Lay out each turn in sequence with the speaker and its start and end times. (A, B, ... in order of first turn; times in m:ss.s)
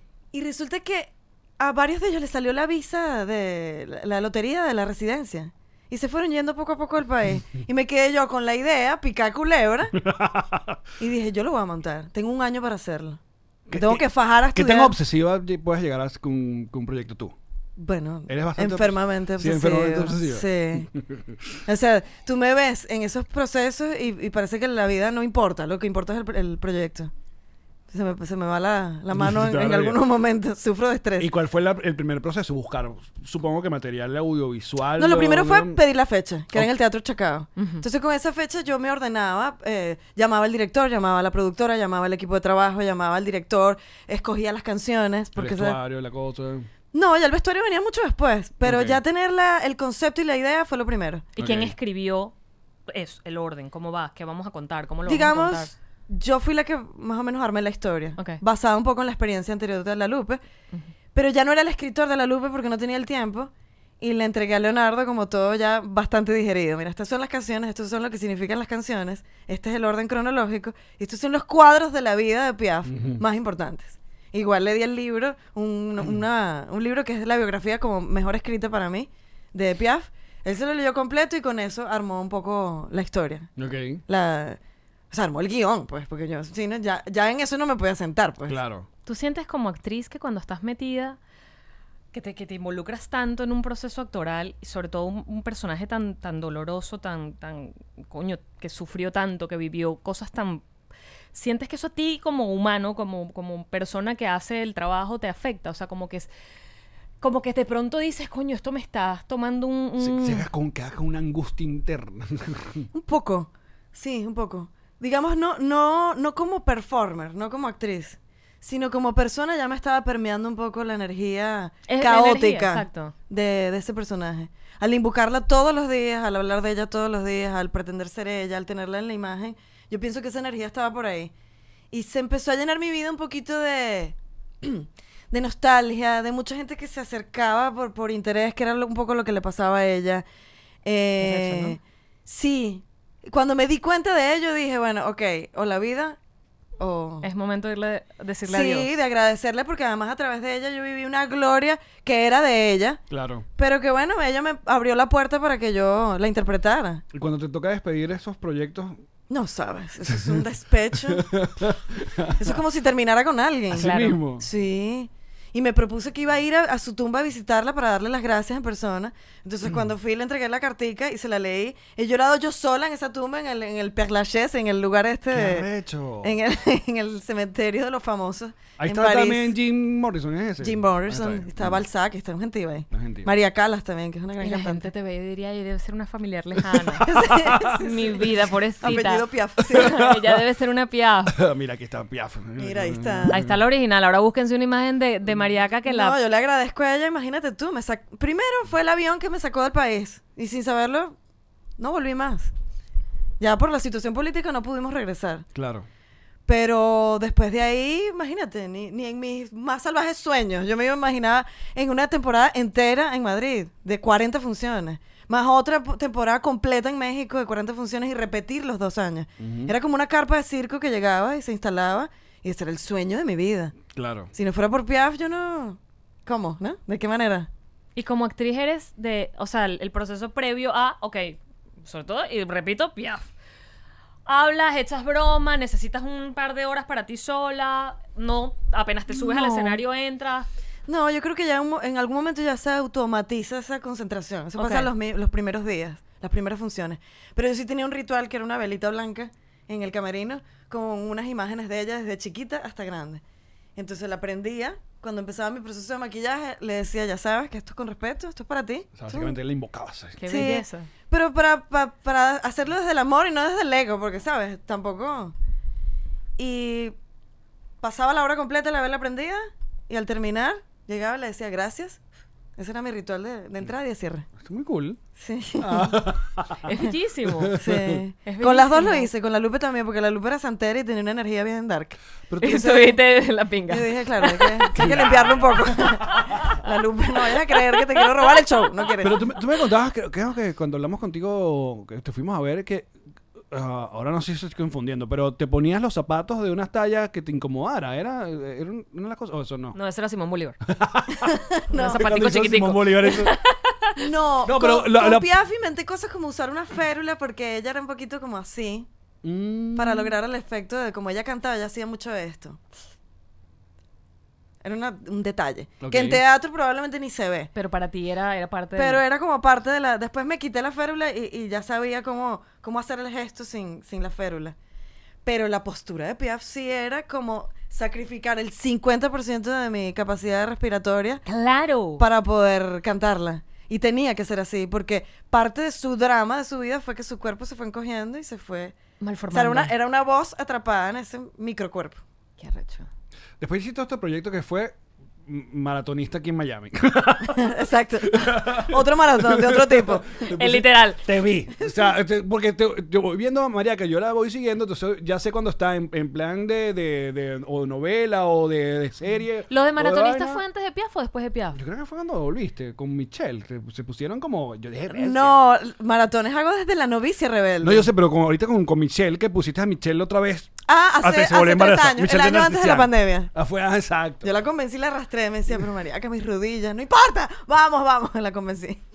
0:00.3-0:10.0 A
0:09.9-0:10.8 B
0:11.0-0:13.2 A
0:13.7-0:17.4 B
0:13.7-0:15.0 A
0:17.8-0:20.9 A
0:18.3-0:21.6 B
0:21.7-0:27.1 A
0:27.9-0:31.3 A
0:29.1-0:30.0 B
0:31.2-0:35.8 B
0:35.0-0:45.8 A
0:37.6-0:37.8 C
0:45.4-0:46.7 B
0:46.9-0:51.3 A
0:48.6-0:49.0 B
0:51.4-0:52.3 C
0:51.4-0:51.7 B
0:52.9-0:55.7 C
0:55.1-1:00.4 A
1:01.1-1:23.5 A
1:12.9-1:13.2 B
1:23.6-1:24.0 B
1:24.1-1:24.6 A
1:25.1-1:28.6 A
1:28.5-1:28.9 B
1:29.1-1:31.2 C
1:32.1-1:40.6 C
1:41.3-1:46.3 C
1:47.2-1:50.5 C
1:50.0-1:52.9 B
1:52.9-2:11.3 A
2:01.9-2:03.1 C
2:11.9-2:20.2 A
2:20.8-2:26.2 A
2:21.2-2:21.8 C
2:26.8-2:27.3 A
2:27.2-2:28.9 C
2:28.5-2:33.0 A
2:33.1-2:33.4 B
2:33.6-2:37.0 A
2:37.1-2:39.0 B
2:39.3-2:41.3 A
2:40.1-2:40.4 B
2:41.0-2:42.6 B
2:42.4-2:55.7 A
2:43.7-2:44.4 B
2:43.8-2:44.2 C
2:55.3-2:56.4 B
2:56.2-2:59.6 A
2:58.8-3:01.8 B
3:00.6-3:04.9 A
3:02.9-3:03.3 B
3:04.4-3:07.1 C
3:06.7-3:07.8 B
3:07.0-3:10.0 A
3:07.7-3:11.4 C
3:09.7-3:10.3 B
3:11.3-3:13.6 B
3:12.6-3:13.4 A
3:13.3-3:16.2 C
3:15.9-3:21.2 A
3:21.8-3:22.5 A
3:23.4-3:25.4 A
3:25.6-3:25.9 B
3:26.5-3:43.8 A
3:39.4-3:39.7 B
3:43.9-3:44.3 B
3:44.3-3:47.5 A
3:48.0-3:53.3 C
3:54.3-4:00.5 C
3:59.1-3:59.8 A
4:00.9-4:13.2 A
4:04.6-4:04.9 C
4:13.8-4:19.4 A
4:19.0-4:20.2 B
4:20.2-4:20.9 C
4:20.3-4:25.3 A
4:26.4-4:27.0 A
4:27.8-4:32.0 A
4:32.6-4:34.3 A
4:34.4-4:35.0 B
4:35.2-4:36.0 A
4:35.6-4:36.7 B
4:36.6-4:37.6 C
4:37.3-4:38.0 B
4:37.6-4:43.0 A
4:38.2-4:39.1 C
4:42.3-4:42.6 B
4:42.4-4:44.7 C
4:43.7-4:49.2 A
4:44.8-4:46.2 B
4:47.5-4:48.7 C
4:49.0-4:52.9 B
4:53.5-4:59.8 B
4:59.7-5:00.6 C
5:00.7-5:03.4 B
5:01.2-5:02.0 A
5:01.7-5:04.0 C
5:04.0-5:08.9 A
5:04.4-5:05.3 B
5:09.2-5:10.1 B
5:09.8-5:12.6 A
5:14.6-5:17.5 A
5:15.8-5:16.2 B
5:17.6-5:19.0 C
5:18.8-5:24.6 A
5:25.2-5:31.2 A
5:31.3-5:32.0 C
5:32.0-5:38.8 A
5:39.0-5:39.7 C
5:39.3-5:42.0 A
5:42.4-5:42.9 C
5:43.4-5:47.6 B
5:47.3-5:50.2 A
5:48.1-6:00.4 B
5:50.4-5:51.0 C
5:59.5-6:01.6 C
6:01.5-6:05.4 B
6:04.9-6:07.9 A
6:07.6-6:14.3 B
6:10.7-6:13.3 A
6:14.2-6:18.8 A